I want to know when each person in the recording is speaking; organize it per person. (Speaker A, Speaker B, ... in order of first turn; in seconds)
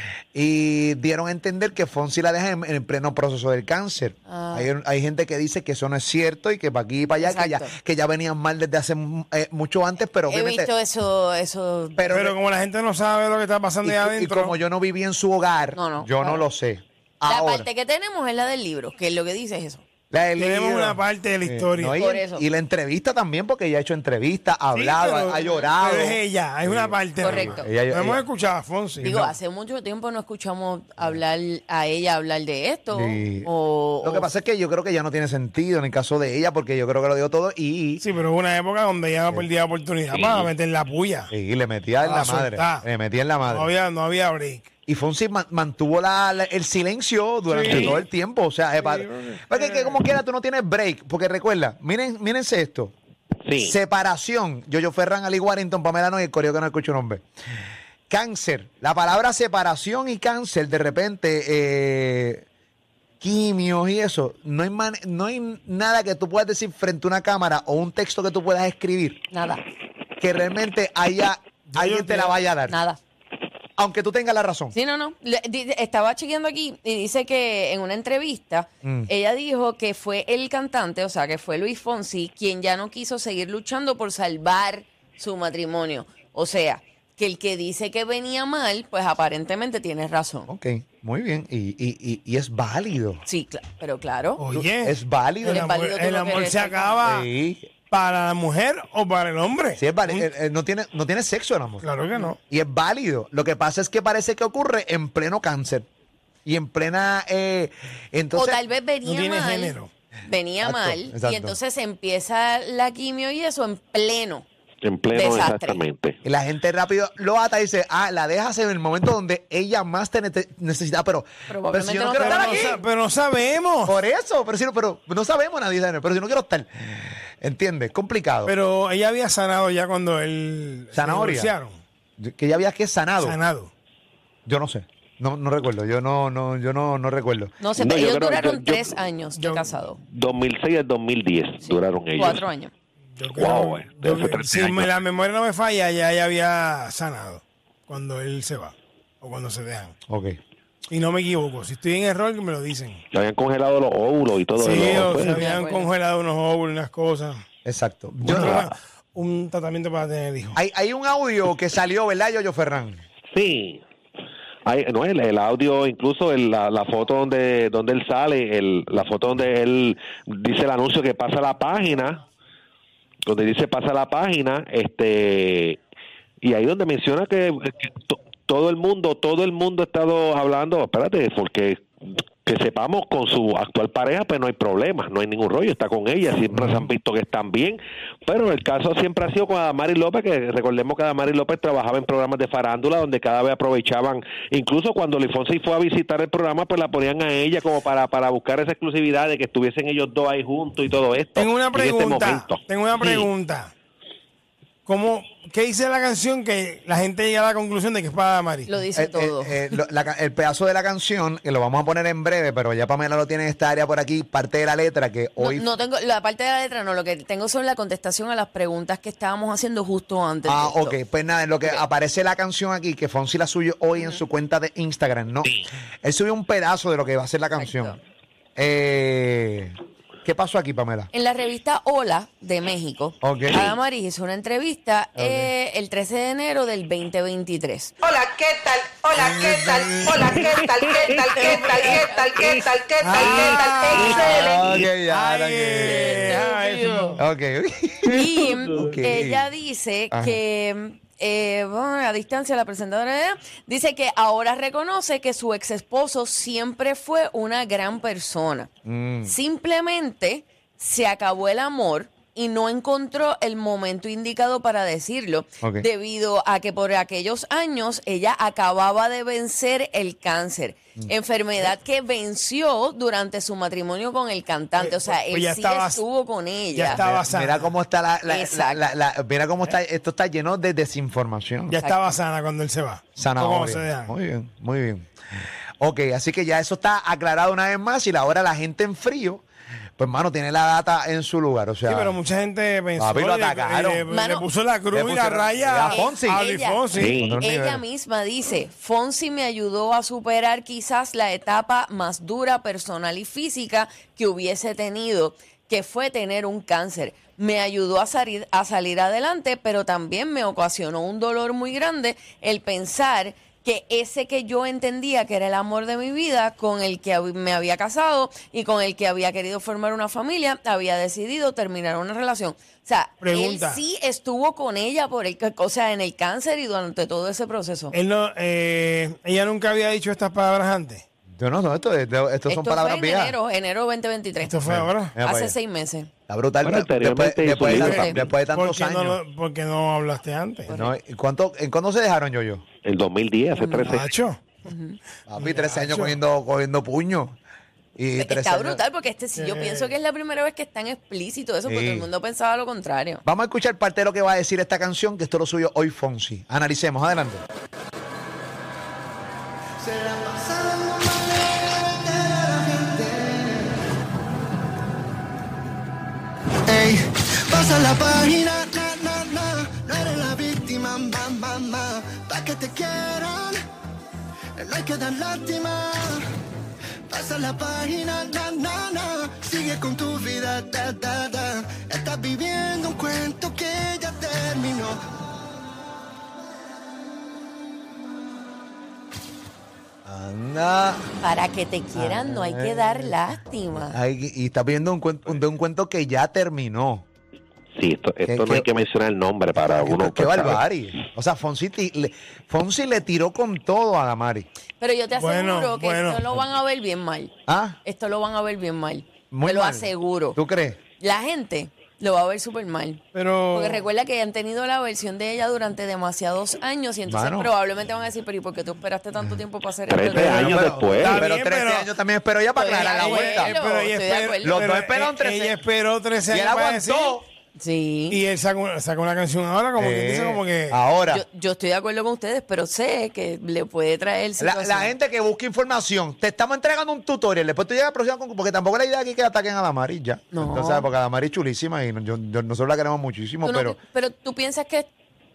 Speaker A: 0.3-10.7, 12.0-12.3, 13.8-17.7, 20.1-28.2, 29.0-29.3, 32.9-38.0, 41.3-43.7, 44.9-53.0, 53.6-57.2, 58.1-62.5, 63.2-69.2, 70.2-72.8, 73.8-74.8, 78.8-79.1, 90.5-93.2, 94.5-95.7, 97.0-97.7, 99.8-101.8, 102.5-105.9, 106.5-108.6, 110.6-111.6, 116.2-122.8, 123.9-128.5, 130.9-131.5, 132.2-133.4, 134.5-137.6, 150.1-150.4, 157.7-158.7, 160.6-163.0, 186.5-186.9, 208.9-215.7, 220.4-228.0, 228.6-231.1, 233.2-233.7, 235.2-235.5, 239.2-240.4, 243.0-246.4, 247.2-249.5, 250.1-250.4, 258.9-259.4, 265.6-265.9, 276.9-281.8, 283.2-285.1, 285.8-289.4, 290.0-292.2, 293.0-294.1, 294.9-296.4, 297.2-297.8, 331.4-333.4, 334.7-335.5, 336.3-339.2, 340.7-342.6, 345.3-347.4, 348.0-348.8, 351.7-352.1, 353.2-357.4, 390.1-391.1, 391.9-393.2, 393.7-397.1, 398.3-398.7, 399.6-404.5, 407.5-407.8, 409.3-410.8, 417.1-417.5, 420.1-423.5, 424.4-425.6, 426.3-427.2, 429.8-431.2, 434.4-443.8
Speaker B: 4.3-4.7, 7.2-7.7, 10.3-12.0, 15.7-16.4, 17.3-19.8, 22.0-22.4, 27.2-27.7, 29.0-34.3, 69.3-69.6, 72.7-73.0, 74.7-90.5, 93.3-94.4, 95.4-97.0, 108.3-109.7, 110.2-114.5, 115.1-115.8, 121.5-122.7, 137.6-140.0, 141.6-142.7, 155.1-155.9, 208.7-209.7, 215.4-221.0, 224.0-224.2, 227.6-228.0, 231.1-237.9, 241.2-242.3, 245.8-247.2, 248.1-258.7, 259.2-277.0, 278.3-278.9, 294.1-294.5, 295.9-296.8, 297.4-327.9, 332.5-334.6, 335.2-336.1, 337.8-338.1, 340.7-341.0, 343.6-344.0, 344.7-345.0, 348.1-353.2, 391.2-394.0, 404.8-407.3, 407.9-410.4, 411.0-420.8, 422.6-424.6, 427.6-428.2, 431.1-434.9, 440.3-440.9, 443.4-444.9
Speaker C: 12.1-14.6, 20.4-21.9, 24.7-29.2, 38.0-41.3, 42.0-42.9, 43.4-44.7, 47.5-48.0, 48.8-50.0, 71.7-72.4, 94.4-97.3, 97.9-100.3, 101.8-102.4, 109.0-109.9, 122.1-124.0, 128.4-131.8, 133.2-133.7, 139.3-139.8, 143.2-149.9, 150.9-153.0, 154.6-157.4, 158.2-160.6, 201.3-203.7, 204.9-208.7, 243.1-247.2, 274.8-276.1, 276.7-277.7, 281.7-284.1, 291.8-297.2, 323.2-323.8, 327.9-331.1, 334.4-335.1, 337.7-340.7, 343.9-344.5, 345.4-346.1, 349.4-349.9, 405.1-406.4, 413.1-413.9, 420.9-421.9, 422.9-427.2, 428.1-430.8
Speaker D: 40.1-40.5, 47.7-48.0, 53.5-53.8, 114.8-116.2, 137.8-139.0, 140.1-142.4, 143.3-144.9, 153.1-155.5, 163.3-163.8, 164.7-172.2, 173.3-175.8, 176.4-181.8, 182.5-203.3, 240.4-241.4, 296.9-297.4, 336.6-338.2, 342.8-344.1, 397.8-400.6, 419.9-421.2
Speaker E: 238.0-244.6
Speaker F: 359.8-363.6, 366.7-373.6, 374.6-376.2, 377.1-385.0